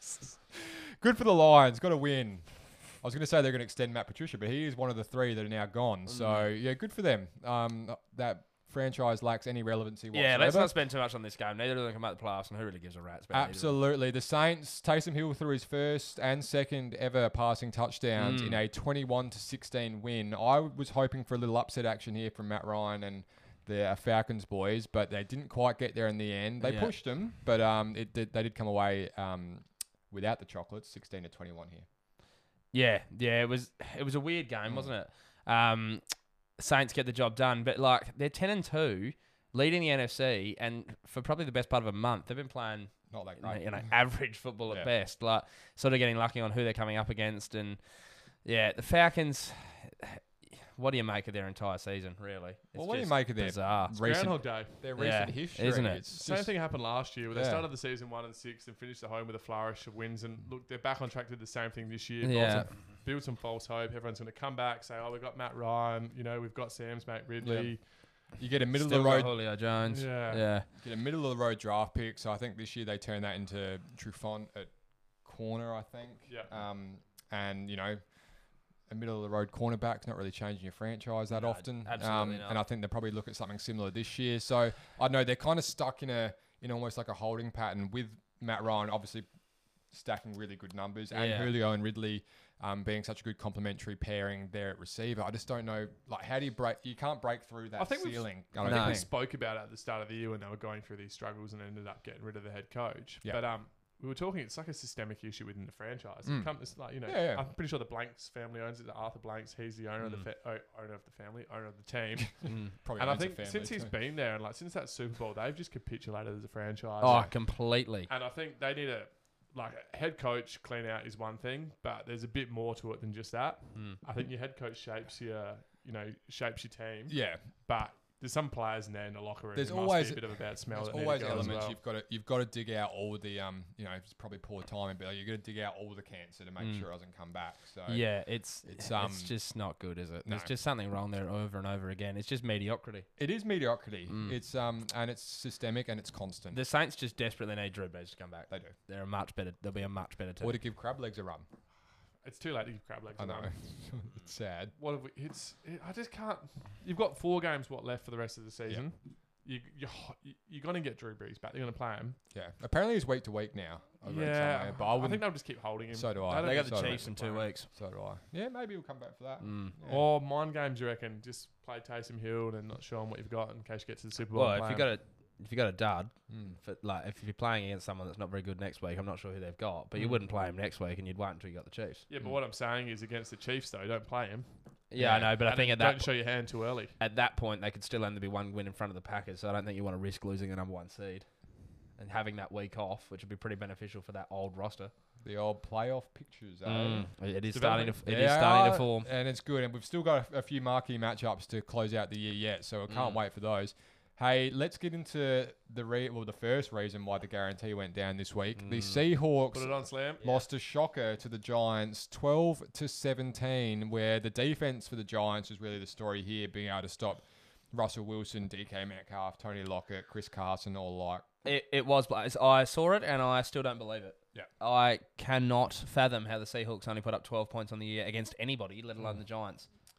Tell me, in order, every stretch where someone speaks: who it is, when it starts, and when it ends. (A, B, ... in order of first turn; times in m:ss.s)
0:00.5-0:10.7 A
0:06.1-0:06.5 B
0:10.1-0:13.8 B
0:13.3-0:31.9 A
0:18.2-0:18.6 B
0:26.6-0:26.9 B
0:32.7-0:54.0 B
0:34.7-0:34.9 A
0:43.1-0:43.9 A
0:52.7-0:56.6 A
0:54.0-0:54.9 C
0:55.0-0:56.0 B
0:56.1-1:08.3 C
0:57.3-0:57.7 A
1:02.2-1:02.8 B
1:07.4-1:09.3 A
1:08.7-1:10.7 B
1:09.9-1:10.5 C
1:10.7-1:18.0 A
1:16.3-1:16.5 C
1:18.9-1:29.3 A
1:21.3-1:22.6 B
1:29.9-1:39.1 A
1:31.1-1:31.5 B
1:37.8-1:57.5 C
1:38.6-1:39.0 B
1:46.2-1:47.5 A
1:50.0-1:50.3 B
1:52.4-1:53.9 A
1:52.5-1:52.8 B
1:57.0-1:58.1 B
1:57.0-1:57.3 A
1:58.1-2:11.8 C
2:07.1-2:07.4 A
2:09.6-2:19.4 A
2:16.6-2:16.9 B
2:17.9-2:23.1 B
2:20.2-2:20.5 A
2:23.2-2:26.6 A
2:24.1-2:24.4 B
2:26.5-2:30.6 B
2:28.5-2:28.8 A
2:30.4-2:31.5 A
2:32.2-2:33.6 C
2:33.2-2:34.7 A
2:34.8-2:42.2 C
2:42.3-2:50.1 A
2:44.0-2:47.5 C
2:46.4-2:47.7 B
2:49.4-2:49.8 B
2:49.8-2:54.9 C
2:54.3-3:02.0 B
2:56.3-2:56.6 A
3:02.1-3:04.5 C
3:04.9-3:06.1 B
3:05.0-3:05.3 A
3:05.4-3:07.0 C
3:07.0-3:11.3 B
3:11.9-3:14.9 B
3:15.2-3:17.1 A
3:16.6-3:19.1 B
3:17.5-3:18.0 C
3:18.0-3:41.3 A
3:22.9-3:23.2 B
3:28.6-3:29.0 B
3:29.5-3:30.2 C
3:41.4-3:49.7 B